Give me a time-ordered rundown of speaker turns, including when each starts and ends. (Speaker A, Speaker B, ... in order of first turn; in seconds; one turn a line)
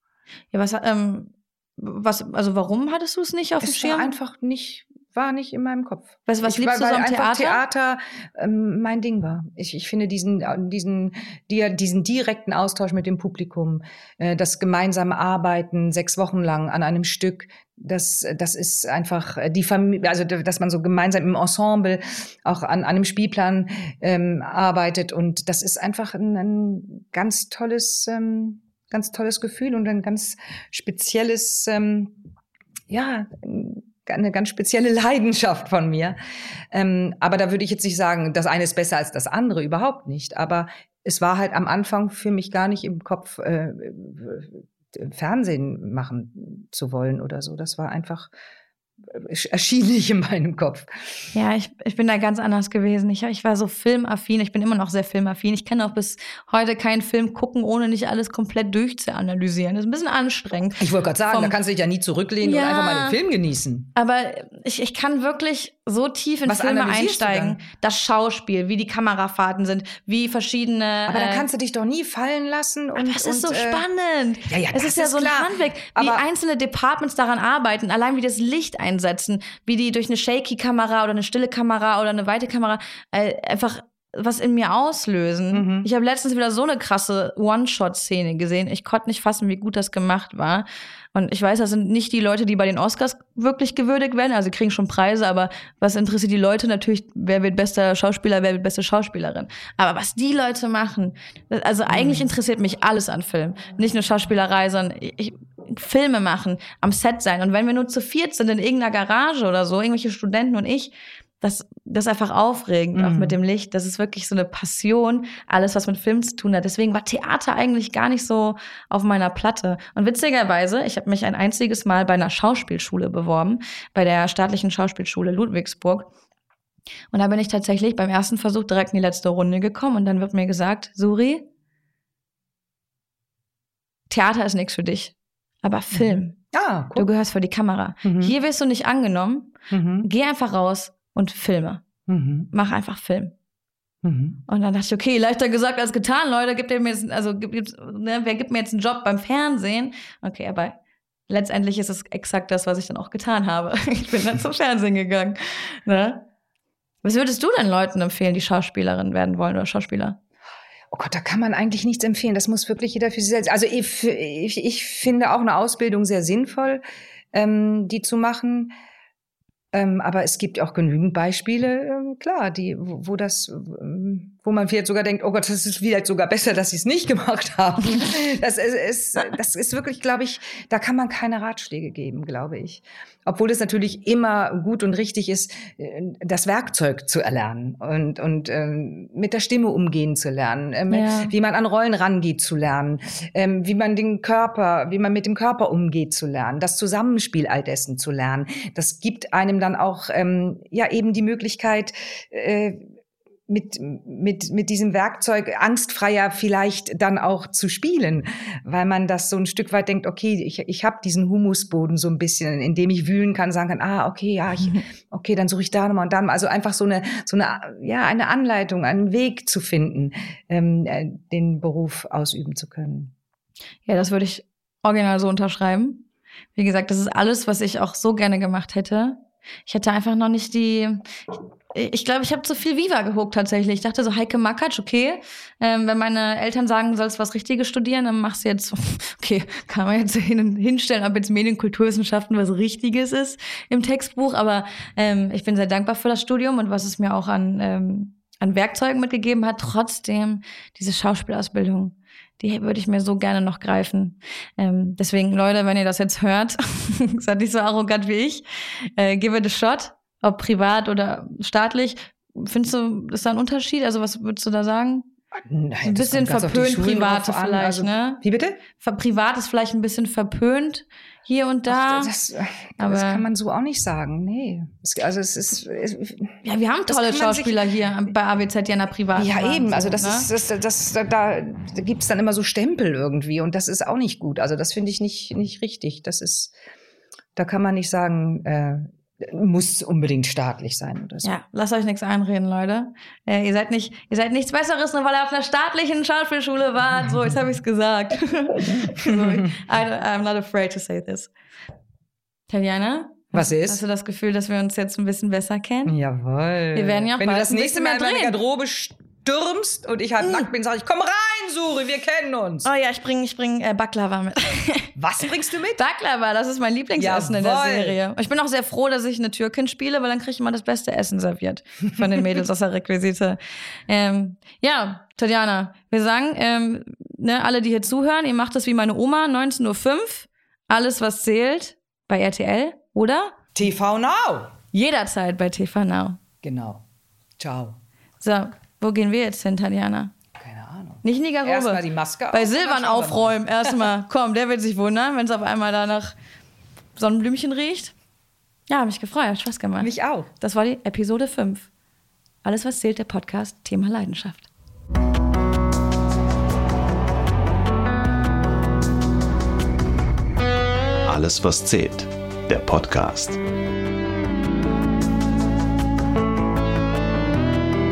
Speaker A: 0.5-4.1
Speaker B: 3.6-32.2
Speaker A: 6.3-7.6
Speaker B: 32.9-36.2
Speaker B: 36.7-48.3
Speaker B: 49.1-51.2
Speaker A: 51.3-61.5
Speaker B: 60.8-63.9
Speaker A: 62.4-63.2
Speaker A: 64.0-71.5
Speaker B: 66.5-67.6
Speaker B: 71.1-73.8
Speaker A: 73.0-126.1
Speaker B: 74.5-76.2
Speaker B: 85.5-85.9
Speaker B: 101.9-102.3
Speaker B: 113.0-113.4
Speaker A: 127.1-131.5
Speaker A: 134.1-136.4
Speaker B: 136.0-137.1
Speaker A: 136.9-141.8
Speaker B: 138.0-138.3
Speaker B: 139.7-140.1
Speaker B: 142.1-142.5
Speaker A: 142.5-143.3
Speaker B: 144.0-144.4
Speaker A: 144.5-150.8
Speaker A: 151.3-156.2
Speaker A: 157.0-160.2
Speaker B: 160.9-168.7
Speaker B: 169.7-202.8
Speaker A: 190.9-191.3
Speaker B: 203.5-223.1
Speaker A: 223.9-226.0
Speaker A: 226.6-231.0
Speaker A: 231.7-265.1
Speaker B: 265.3-268.6
Speaker A: 265.8-268.2
Speaker A: 268.8-272.1
Speaker B: 271.7-277.6
Speaker A: 272.8-273.3
Speaker A: 276.4-280.3
Speaker B: 279.2-286.5
Speaker B: 287.4-291.4
Speaker A: 291.2-301.3
Speaker B: 299.1-299.5
Speaker A: 302.5-305.9
Speaker B: 303.3-303.8
Speaker B: 305.9-312.7
Speaker A: 306.8-308.4
Speaker A: 310.2-310.5
Speaker A: 312.6-314.9
Speaker B: 315.0-315.8
Speaker A: 315.8-333.4
Speaker B: 317.0-318.0
Speaker B: 333.6-334.6
Speaker A: 334.7-336.2
Speaker B: 336.4-336.8
Speaker B: 337.4-337.8
Speaker A: 338.2-340.1
Speaker B: 340.4-343.8
Speaker A: 341.0-346.1
Speaker A: 347.0-347.9
Speaker A: 348.7-351.7
Speaker B: 349.8-350.3
Speaker A: 352.4-354.5
Speaker C: 361.1-363.4